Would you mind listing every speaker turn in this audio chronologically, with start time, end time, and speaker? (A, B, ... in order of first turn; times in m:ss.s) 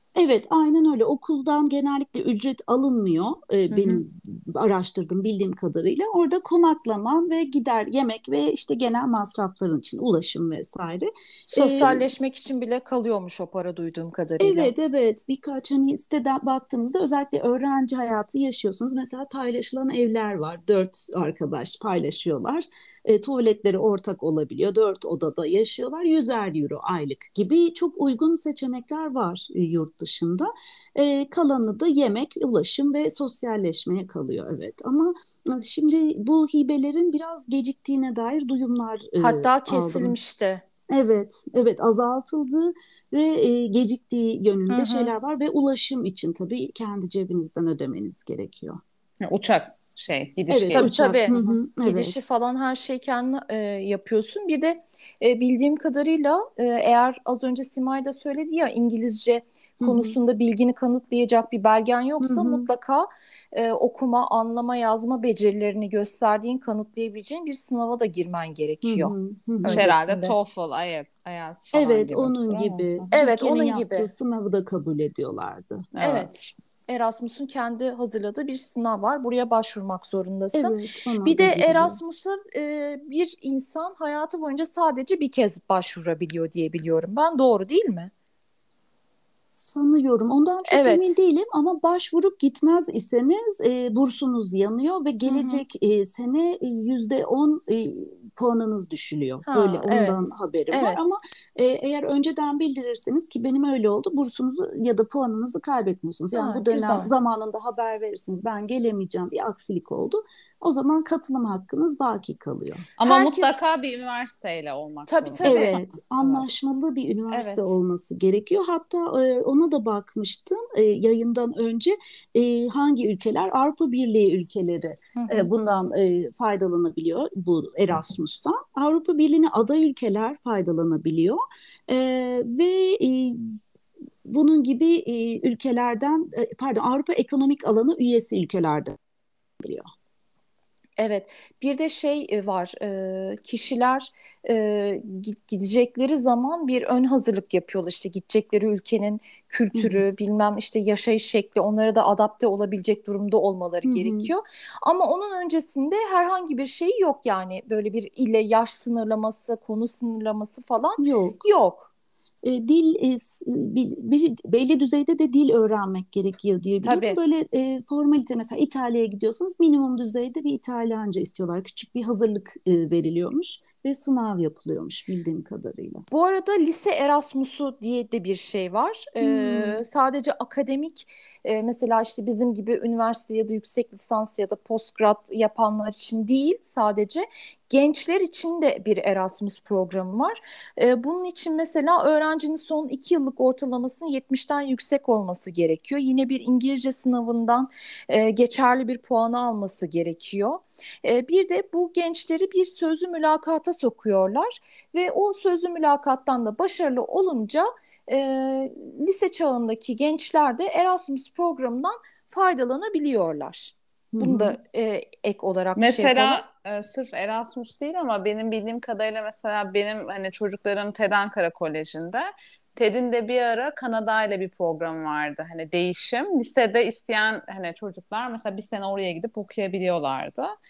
0:00.2-0:12.1 A
0:03.7-0:04.0 B
0:11.5-0:14.7 B
0:14.4-0:40.2 A
0:39.2-0:40.6 B
0:40.9-0:48.8 A
0:44.7-0:45.1 B
0:49.2-0:51.6 C
0:50.5-0:52.3 A
0:50.7-1:10.4 B
0:59.8-1:00.2 A
1:02.2-1:02.7 A
1:08.8-1:09.9 A
1:09.7-1:13.1 C
1:11.7-1:15.9 A
1:13.1-1:14.1 B
1:15.9-1:16.4 C
1:16.0-1:28.1 B
1:20.5-1:22.0 A
1:29.5-1:52.9 A
1:30.7-1:31.2 B
1:35.3-1:35.6 B
1:39.5-1:41.0 B
1:46.3-1:47.1 B
1:53.0-1:56.5 C
1:53.0-1:53.6 B
1:55.1-1:55.8 B
1:55.4-2:13.6 A
1:57.3-1:57.7 B
2:05.2-2:05.5 B
2:14.2-2:19.0 A
2:19.6-2:19.9 A
2:21.0-2:41.9 B
2:29.7-2:30.0 A
2:33.8-2:34.3 A
2:41.0-2:41.4 A
2:42.4-2:56.0 A
2:46.8-2:47.2 B
2:56.1-3:36.4 B
2:59.2-2:59.8 A
3:34.1-3:34.6 A
3:35.8-3:50.5 C